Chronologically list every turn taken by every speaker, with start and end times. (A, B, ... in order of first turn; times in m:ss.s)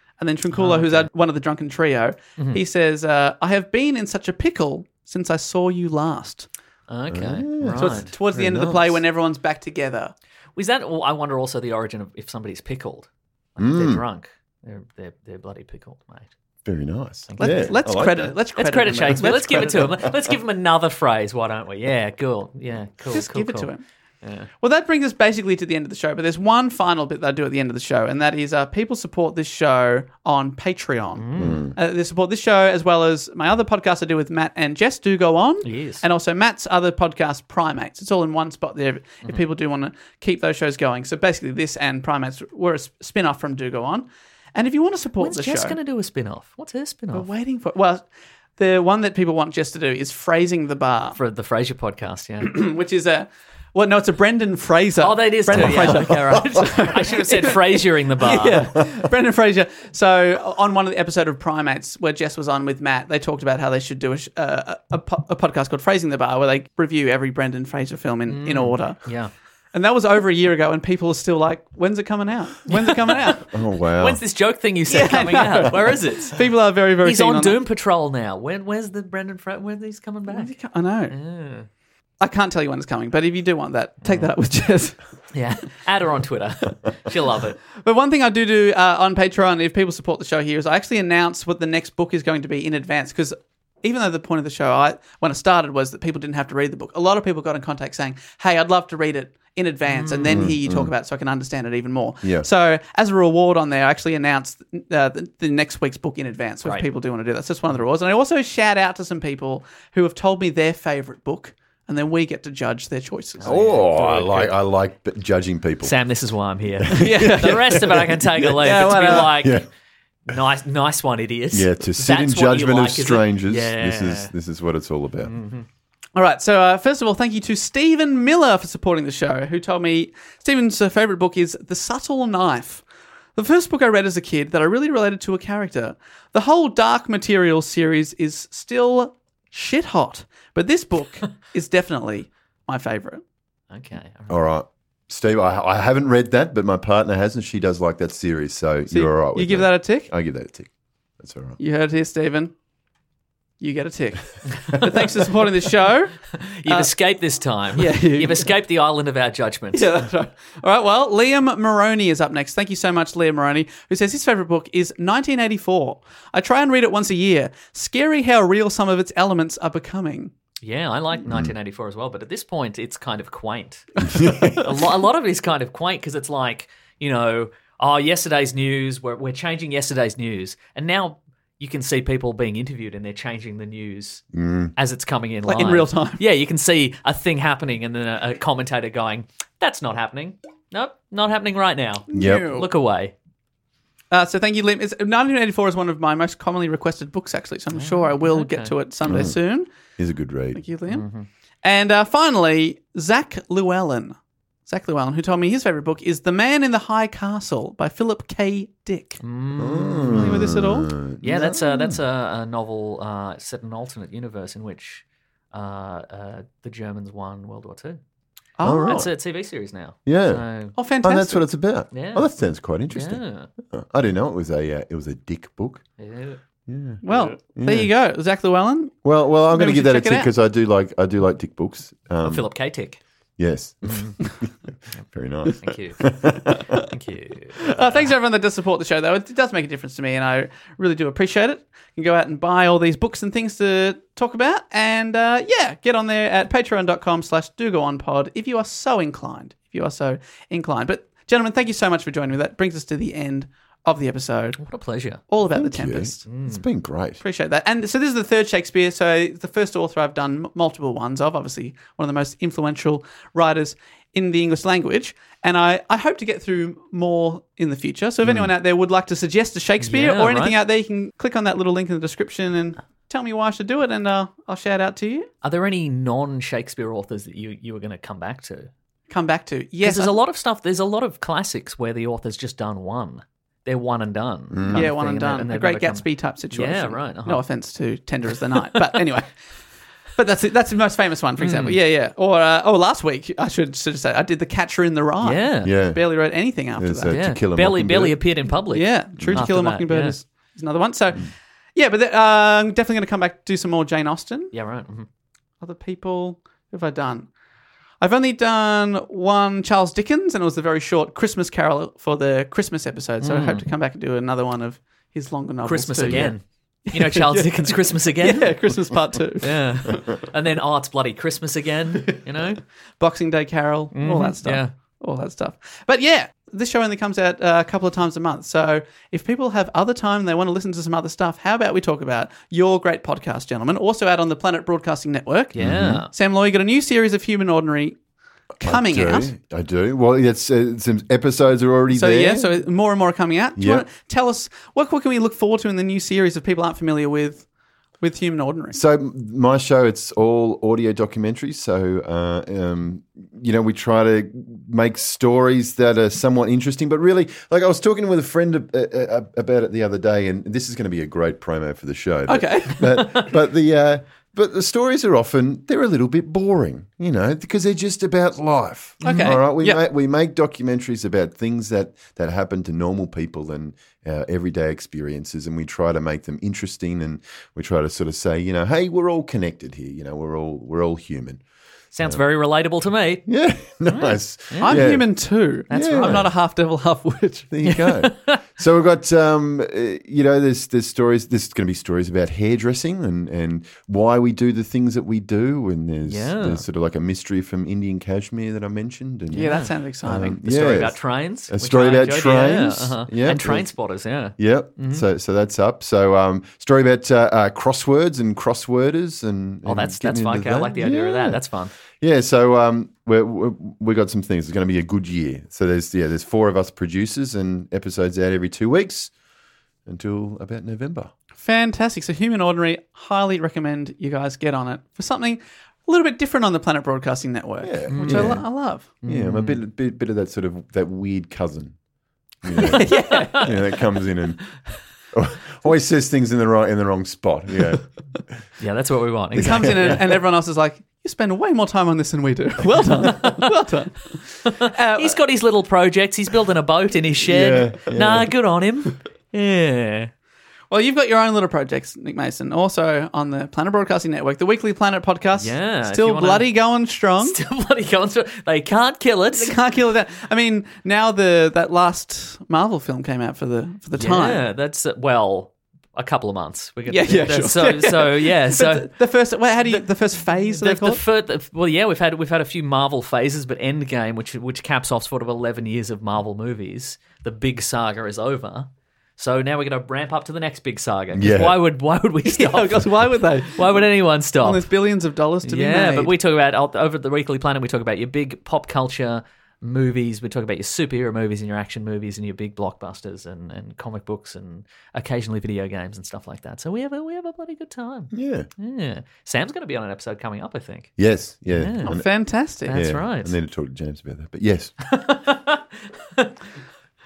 0:00.2-0:06.5 A
0:00.5-0:01.1 B
0:06.9-0:08.1 B
0:07.1-0:09.0 C
0:07.8-0:10.1 A
0:10.6-0:16.3 B
0:13.6-0:14.0 C
0:16.6-0:18.3 C
0:17.3-0:17.7 B
0:17.4-0:20.0 A
0:18.6-0:23.7 B
0:19.5-0:20.1 C
0:23.1-0:23.8 A
0:24.2-0:24.5 B
0:24.6-0:45.8 A
0:31.1-0:31.6 B
0:31.4-0:31.8 C
0:35.6-0:36.0 B
0:45.2-0:47.3 B
0:47.1-0:48.0 A
0:48.6-0:51.2 A
0:51.1-0:52.5 B
0:52.4-1:09.0 A
0:55.0-0:58.7 B
0:55.5-0:56.6 C
1:08.3-1:09.3 B
1:09.7-1:13.5 A
1:12.7-1:13.4 B
1:13.5-1:14.2 C
1:14.0-1:16.4 B
1:14.9-1:17.6 A
1:17.0-1:20.5 B
1:20.3-1:21.2 A
1:21.1-1:21.7 B
1:22.2-1:25.0 A
1:24.0-1:24.3 B
1:25.3-1:27.6 B
1:27.8-1:53.6 A
1:39.9-1:40.5 B
1:40.3-1:40.9 C
1:53.4-1:54.6 B
1:53.4-1:55.9 C
1:55.8-1:59.6 B
1:56.8-1:59.7 C
1:56.9-1:59.4 A
2:00.3-2:04.3 B
2:01.5-2:05.3 C
2:05.2-2:05.6 B
2:06.1-2:12.8 A
2:13.4-2:23.2 A
2:23.7-2:24.3 B
2:24.3-2:31.6 C
2:28.9-2:30.1 A
2:31.6-2:32.5 A
2:33.6-2:36.9 A
2:36.3-2:39.9 B
2:37.7-2:38.5 A
2:39.7-2:50.3 A
2:50.6-3:04.2 B
2:51.3-2:51.5 C
2:54.0-2:54.6 C
3:04.3-3:04.7 C
3:04.7-3:13.1 B
3:05.4-3:06.2 A
3:12.1-3:12.7 A
3:12.1-3:12.5 C
3:14.1-3:19.7 A
3:17.7-3:18.7 B
3:19.0-3:19.4 C
3:20.0-3:20.6 C
3:20.5-3:21.0 A
3:20.9-3:21.3 B
3:21.6-3:29.2 A
3:29.2-3:30.5 B
3:29.6-3:32.0 C
3:30.1-3:30.9 A
3:31.2-3:38.0 B
3:38.6-3:39.1 A
3:38.6-3:39.1 C
3:38.8-3:40.7 B
3:40.0-3:40.4 C
3:40.8-3:41.4 A
3:41.0-3:45.8 C
3:41.9-3:42.3 B
3:42.9-3:43.5 B
3:46.0-3:46.4 B
3:46.7-3:47.0 C
3:47.0-3:47.4 B
3:47.0-3:49.0 A
3:47.5-3:47.9 C
3:49.0-3:52.5 C
3:49.5-3:50.3 A
3:52.2-3:53.0 B
3:53.4-3:54.5 C
3:53.8-3:54.1 B
3:55.1-3:56.8 C
3:55.4-3:58.1 B
3:57.6-4:14.6 A
4:14.6-4:15.2 B
4:15.3-4:16.2 A
4:15.4-4:17.2 C
4:16.3-4:16.6 B
4:17.2-4:35.3 A
4:28.2-4:28.5 C
4:29.8-4:30.6 B
4:35.4-4:38.7 B
4:39.1-4:40.2 A
4:39.8-4:47.4 B
4:44.5-4:44.9 C
4:44.7-4:49.3 A
4:50.2-4:57.2 A
4:51.4-4:51.8 B
4:55.2-4:55.7 B
4:55.6-4:56.0 C
4:56.8-4:58.2 C
4:57.1-5:00.2 B
4:58.7-5:04.5 A
4:59.2-4:59.4 C
5:04.5-5:05.1 B
5:05.6-5:07.3 A
5:08.0-5:20.2 A
5:13.2-5:13.6 B
5:15.6-5:18.7 B
5:16.1-5:16.3 C
5:19.4-5:22.6 B
5:23.0-5:35.6 A
5:23.9-5:24.7 B
5:35.5-5:36.1 B
5:35.6-5:36.0 C
5:36.1-5:38.0 A
5:38.6-5:39.3 A
5:38.6-5:42.6 C
5:41.9-5:47.4 A
5:43.6-5:43.8 C
5:48.0-5:48.8 A
5:48.7-6:21.4 C
6:02.3-6:03.3 A
6:09.0-6:09.4 B
6:09.0-6:09.8 A
6:21.9-6:23.3 B
6:23.2-6:25.1 C
6:23.9-6:24.9 B
6:24.6-6:27.5 A
6:25.7-6:26.3 B
6:25.7-6:26.3 C
6:27.5-6:43.7 C
6:27.6-6:28.4 B
6:36.1-6:36.6 B
6:39.3-6:40.4 A
6:40.4-6:45.0 B
6:44.4-6:59.1 C
6:49.6-6:51.7 B
6:59.8-7:01.1 C
7:01.4-7:08.9 A
7:07.6-7:11.8 C
7:07.9-7:08.4 B
7:09.0-7:09.6 B
7:12.4-7:14.4 C
7:12.6-7:13.5 B
7:12.6-7:13.6 A
7:15.1-7:17.8 C
7:18.6-7:20.0 B
7:19.3-7:20.0 C
7:19.4-7:25.2 A
7:23.0-7:23.5 B
7:24.4-7:30.1 B
7:27.2-7:28.3 C
7:30.7-7:37.4 A
7:35.4-7:36.5 B
7:37.2-7:39.6 B
7:39.3-7:44.4 A
7:44.0-7:48.9 B
7:46.9-7:51.0 A
7:50.6-8:04.7 B
8:01.1-8:01.6 C
8:02.2-8:03.9 A
8:04.4-8:06.1 A
8:05.4-8:21.0 B
8:18.1-8:18.5 C
8:21.0-8:22.1 C
8:21.5-8:22.0 B
8:21.8-8:22.8 A
8:22.6-8:23.3 B
8:22.7-8:24.7 C
8:24.9-8:26.3 B